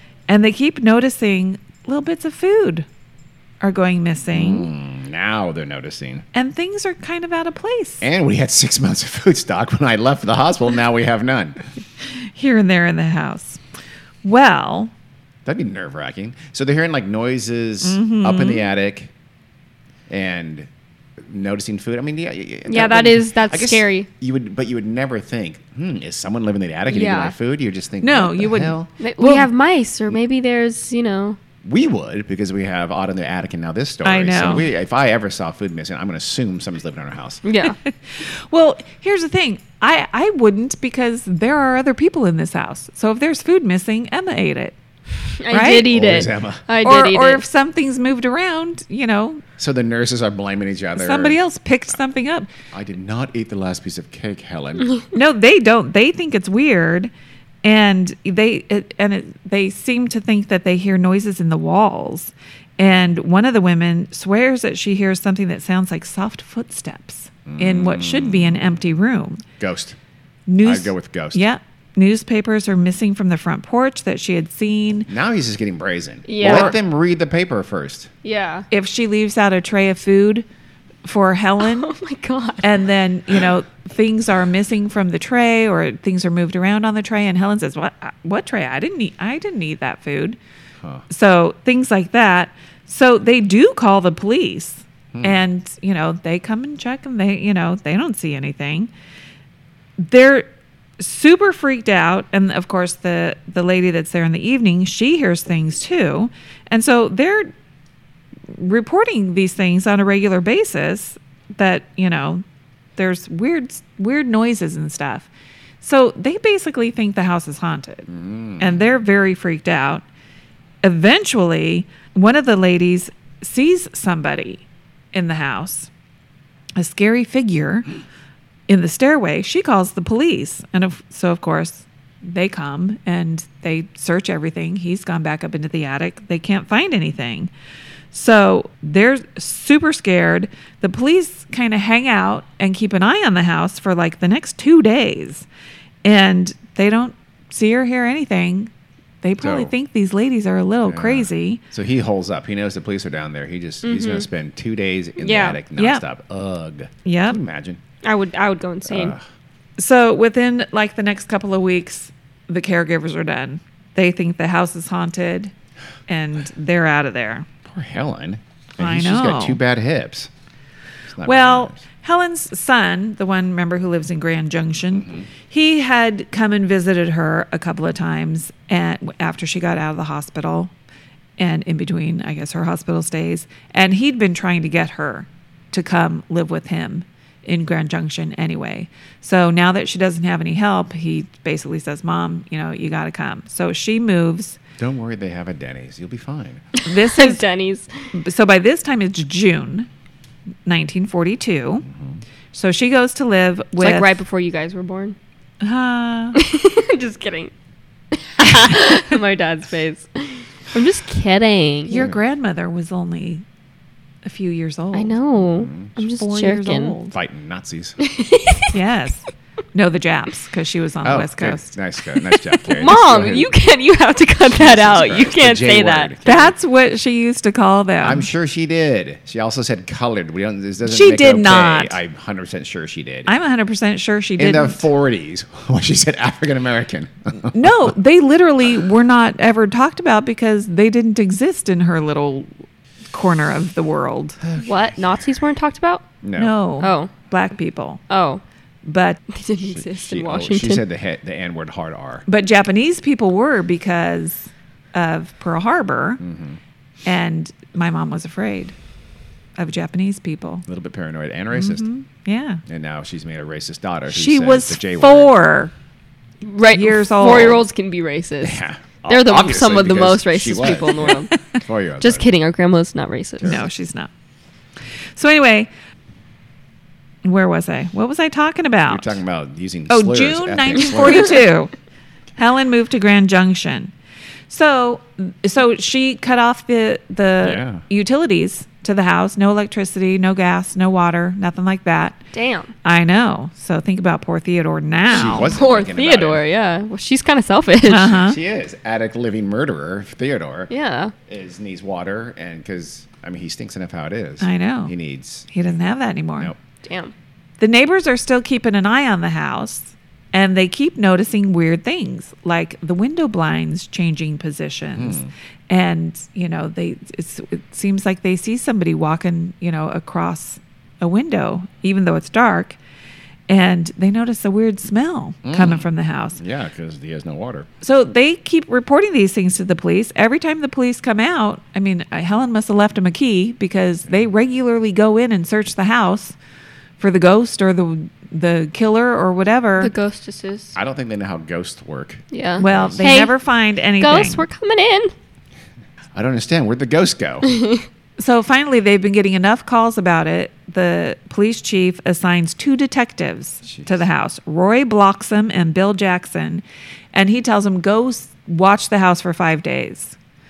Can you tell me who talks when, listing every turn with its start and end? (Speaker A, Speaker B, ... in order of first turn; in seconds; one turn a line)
Speaker A: 0.3-2.9
Speaker A: 3.6-4.7
Speaker B: 4.3-6.3
Speaker A: 6.3-8.1
Speaker B: 8.0-11.7
Speaker A: 12.0-13.6
Speaker A: 14.2-14.9
Speaker B: 15.5-19.1
Speaker A: 17.8-18.7
Speaker B: 20.1-28.9
Speaker C: 22.7-24.1
Speaker C: 26.9-27.4
Speaker A: 28.0-29.5
Speaker C: 29.0-31.4
Speaker B: 31.6-37.4
Speaker A: 34.0-34.7
Speaker C: 37.4-37.8
Speaker A: 37.6-44.8
Speaker C: 45.4-47.4
Speaker A: 45.5-45.9
Speaker B: 45.8-46.6
Speaker A: 46.8-49.4
Speaker B: 49.6-51.4
Speaker A: 51.0-52.5
Speaker B: 52.7-54.9
Speaker A: 55.1-57.1
Speaker A: 57.6-69.4
Speaker B: 67.5-68.8
Speaker B: 69.6-70.0
Speaker A: 70.5-75.1
Speaker B: 70.6-71.4
Speaker B: 75.1-78.1
Speaker C: 76.3-76.8
Speaker A: 76.4-76.7
Speaker C: 78.2-78.7
Speaker A: 78.7-80.5
Speaker A: 81.0-81.9
Speaker C: 81.6-82.8
Speaker A: 82.6-90.4
Speaker A: 91.1-98.9
Speaker B: 95.1-95.4
Speaker A: 100.0-100.5
Speaker A: 101.0-107.5
Speaker A: 108.5-112.4
Speaker A: 113.0-115.3
Speaker A: 115.8-120.0
Speaker B: 118.1-118.8
Speaker A: 120.8-125.9
Speaker A: 126.8-127.9
Speaker A: 128.7-137.5
Speaker A: 138.1-145.5
Speaker A: 146.0-148.7
Speaker A: 149.2-151.6
Speaker B: 149.4-149.7
Speaker B: 150.9-157.8
Speaker C: 153.8-154.3
Speaker C: 155.2-155.6
Speaker A: 155.8-156.0
Speaker A: 157.1-157.4
Speaker C: 158.0-159.2
Speaker B: 158.9-159.2
Speaker A: 159.8-165.5
Speaker A: 166.1-167.5
Speaker B: 167.6-170.3
Speaker A: 168.8-169.6
Speaker B: 171.1-171.8
Speaker A: 171.2-180.7
Speaker B: 174.9-175.3
Speaker A: 181.4-194.6
Speaker B: 194.8-196.7
Speaker C: 196.8-198.1
Speaker A: 196.8-197.4
Speaker A: 198.1-199.9
Speaker A: 200.7-201.9
Speaker B: 201.9-202.2
Speaker A: 202.5-204.1
Speaker C: 203.8-205.2
Speaker A: 205.6-206.4
Speaker C: 206.3-207.5
Speaker C: 208.1-212.0
Speaker A: 211.9-213.4
Speaker B: 211.9-212.2
Speaker A: 214.2-215.2
Speaker C: 214.9-217.0
Speaker B: 215.4-215.9
Speaker A: 216.1-217.2
Speaker B: 217.1-218.0
Speaker C: 218.0-218.8
Speaker A: 218.7-221.7
Speaker B: 221.0-223.6
Speaker A: 222.2-222.6
Speaker C: 222.7-226.4
Speaker B: 224.5-226.5
Speaker A: 226.2-228.3
Speaker B: 228.0-233.3
Speaker A: 230.8-232.0
Speaker A: 233.3-234.8
Speaker B: 234.4-237.9
Speaker A: 237.4-242.5
Speaker A: 243.1-244.4
Speaker B: 244.4-245.2
Speaker C: 244.6-246.1
Speaker B: 246.2-246.6
Speaker A: 246.4-248.0
Speaker C: 246.8-247.1
Speaker C: 248.1-248.4
Speaker A: 248.8-249.2
Speaker C: 249.3-250.8
Speaker B: 249.7-252.3
Speaker A: 252.3-256.2
Speaker B: 256.2-256.6
Speaker A: 257.1-258.8
Speaker A: 259.6-260.6
Speaker B: 260.7-261.9
Speaker A: 261.5-262.6
Speaker B: 262.7-265.3
Speaker A: 264.1-265.7
Speaker C: 266.4-271.4
Speaker A: 266.7-267.6
Speaker B: 268.4-272.3
Speaker C: 272.0-273.6
Speaker A: 273.4-274.1
Speaker A: 275.2-275.7
Speaker A: 277.2-279.2
Speaker B: 278.9-281.4
Speaker A: 279.9-281.7
Speaker A: 282.4-283.9
Speaker A: 284.5-292.2
Speaker B: 287.4-287.9
Speaker C: 292.3-292.7
Speaker A: 292.8-295.6
Speaker B: 295.1-296.5
Speaker C: 295.1-298.2
Speaker A: 297.9-298.4
Speaker B: 298.1-300.7
Speaker C: 300.7-301.1
Speaker B: 301.3-305.6
Speaker A: 304.4-304.9
Speaker A: 305.5-306.5
Speaker C: 306.8-307.1
Speaker A: 307.6-322.8
Speaker B: 315.0-315.3
Speaker A: 323.5-326.4
Speaker B: 325.4-327.7
Speaker A: 327.8-336.4
Speaker A: 337.0-339.9
Speaker C: 339.8-340.8
Speaker B: 340.8-343.2
Speaker C: 342.3-343.4
Speaker A: 342.6-344.5
Speaker C: 344.0-345.1
Speaker B: 346.1-347.6
Speaker C: 347.5-347.8
Speaker A: 348.2-360.2
Speaker B: 353.6-354.1